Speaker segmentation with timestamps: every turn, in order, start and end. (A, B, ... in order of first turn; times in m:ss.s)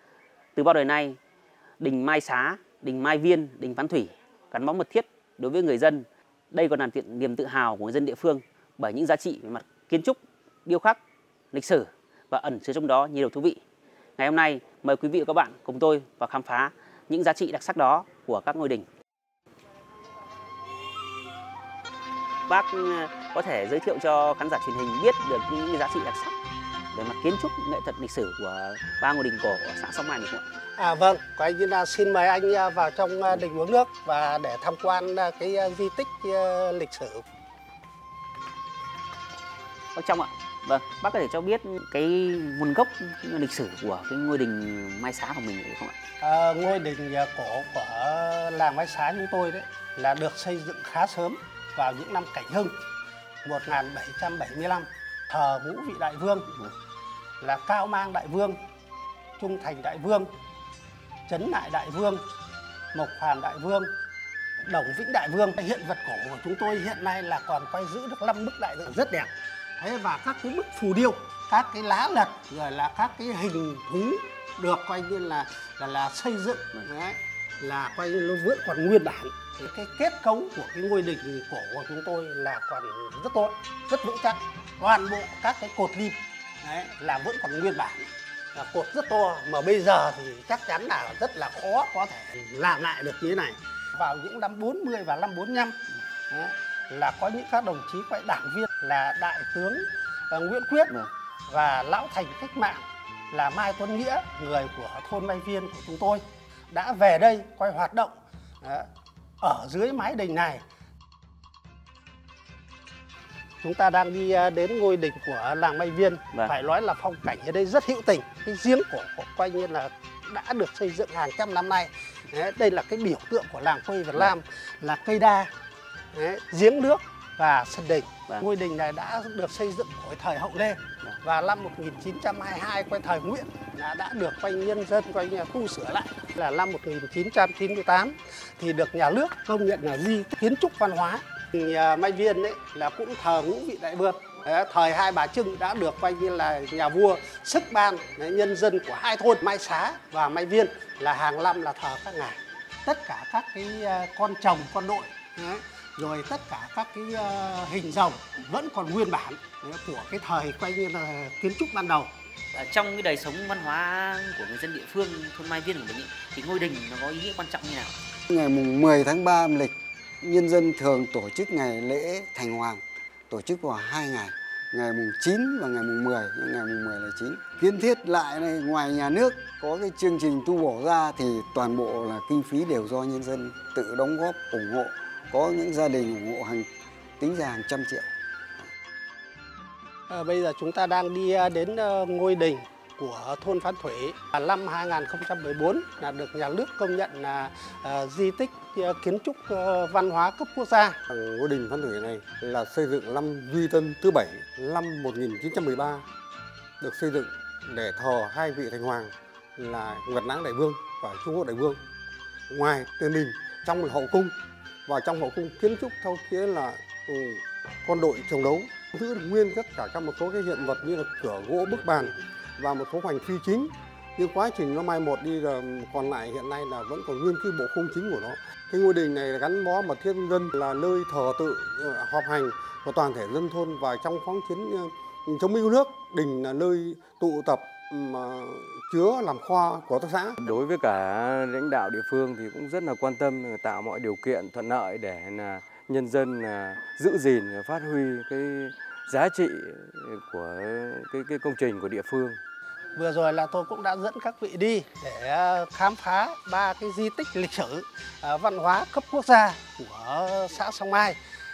0:00.6-0:01.2 A
0:01.8-0:11.0 A
0:11.5-0:13.6 A
0:14.2-0:18.9 A
0:22.5-0:26.4 A
0:26.9-0:30.4 A
0:30.8-0:37.2 B
0:40.0-0:46.0 A
0:46.2-0:52.7 B
0:53.4-0:56.7 B
0:57.4-0:58.6 B
0:59.4-1:00.3 B
1:01.3-1:02.2 B
1:02.9-1:03.9 B
1:04.7-1:35.8 B
1:36.3-1:41.0 B
1:41.5-1:48.9 B
1:49.4-1:50.6 B
1:53.6-2:05.5 B
2:06.1-2:42.1 B
2:42.5-2:47.9 A
2:48.3-3:06.7 C
3:07.2-3:08.1 C
3:10.1-3:21.0 B
3:21.1-3:26.1 D
3:26.8-3:31.8 D
3:32.5-4:00.4 D
4:00.4-4:12.4 E
4:13.0-4:21.2 B